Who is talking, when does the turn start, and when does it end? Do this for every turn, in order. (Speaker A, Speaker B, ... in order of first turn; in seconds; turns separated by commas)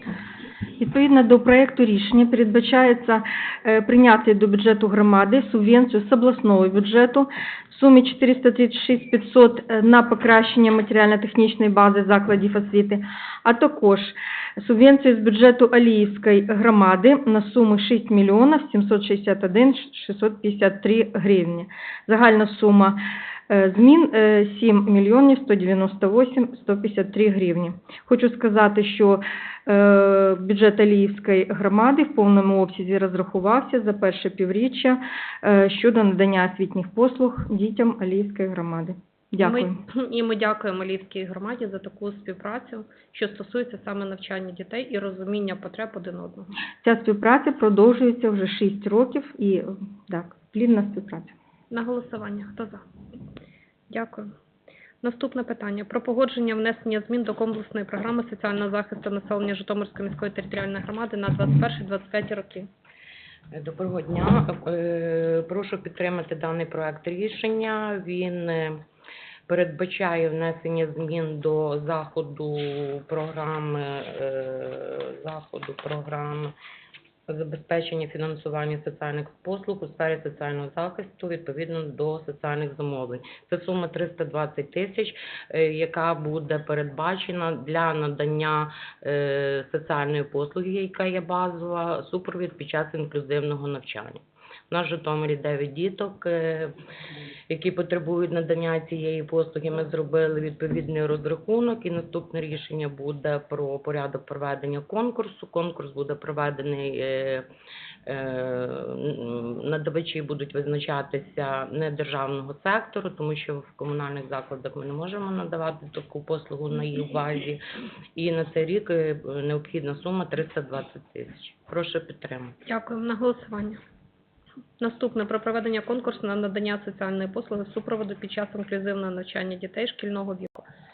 Speaker A: 0.8-39.8, Speaker B: 39.4-46.5, Speaker A: 46.8-51.3, Speaker B: 51.7-52.8, Speaker B: 53.9-54.3, Speaker B: 55.0-62.7, Speaker C: 63.5-68.8, Speaker C: 69.5-76.5, Speaker C: 77.3-96.7, Speaker C: 97.5-107.5, Speaker C: 108.0-117.6, Speaker C: 118.1-122.5, Speaker B: 122.7-123.8, Speaker B: 124.8-130.7